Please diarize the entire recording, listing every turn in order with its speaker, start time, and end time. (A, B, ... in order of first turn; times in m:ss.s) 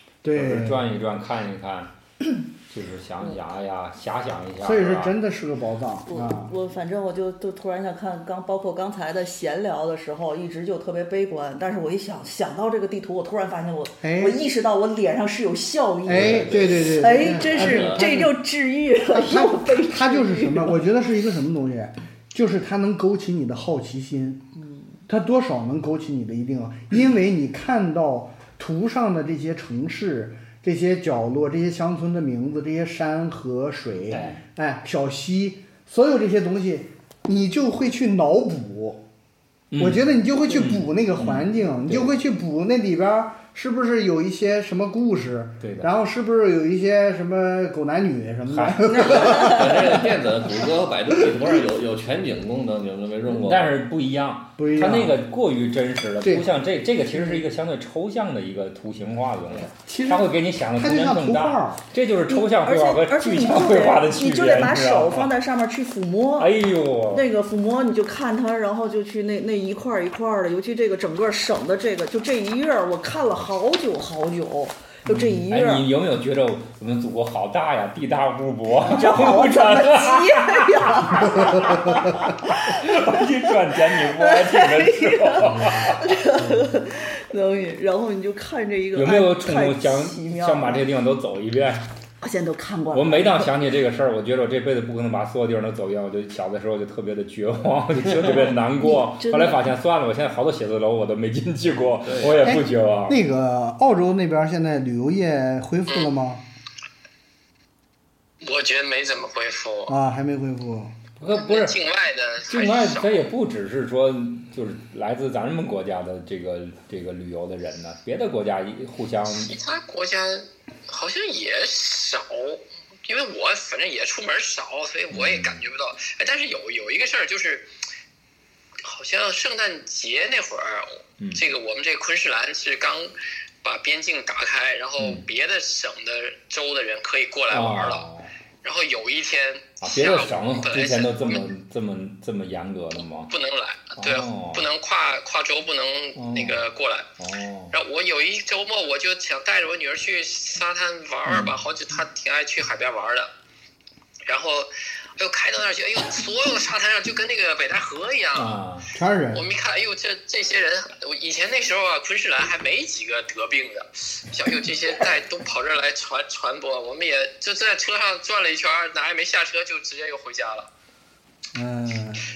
0:00.2-0:00.8 A
0:00.3-0:01.9 B
0:02.7-0:05.2 B
0:04.6-0:06.5 A
0:06.1-0:20.8 C
0:14.0-0:14.4 A
0:16.1-0:18.4 A
0:16.1-0:18.0 D
0:19.1-0:24.4 A
0:24.6-0:24.9 C
0:25.1-0:39.0 A
0:34.1-0:34.4 B
0:39.7-0:42.1 B
0:39.8-0:50.1 A
0:45.6-0:45.9 B
0:48.5-0:49.5 B
0:48.9-0:49.6 C
0:49.1-0:53.8 D
0:51.2-0:51.5 A
0:53.3-1:05.3 B
0:54.6-0:55.2 A
0:56.2-0:56.5 A
0:57.1-0:57.4 A
0:59.7-1:01.8 A
1:02.3-1:06.5 C
1:06.4-1:07.2 B
1:07.1-1:15.8 C
1:15.1-1:15.4 A
1:15.5-1:26.2 B
1:18.8-1:30.9 C
1:28.9-1:31.9 B
1:32.2-1:33.5 C
1:32.9-1:43.2 B
1:38.8-1:39.6 C
1:42.1-1:42.4 D
1:42.4-1:46.4 A
1:48.4-1:50.0 E
1:49.9-1:51.0 A
1:51.2-1:51.8 B
1:51.2-1:53.3 E
1:52.5-1:59.5 B
1:59.4-2:07.7 E
2:05.1-2:05.6 B
2:08.8-2:18.0 E
2:15.0-2:15.2 B
2:17.5-2:18.3 B
2:18.6-2:21.5 E
2:19.8-2:23.3 B
2:23.3-2:27.1 E
2:24.0-2:24.7 B
2:26.2-2:26.6 B
2:27.2-2:27.7 B
2:27.7-2:33.3 E
2:31.3-2:31.5 B
2:34.3-2:38.6 E
2:38.4-2:38.9 B
2:38.9-2:39.5 A
2:39.3-2:50.7 E
2:51.6-2:52.3 A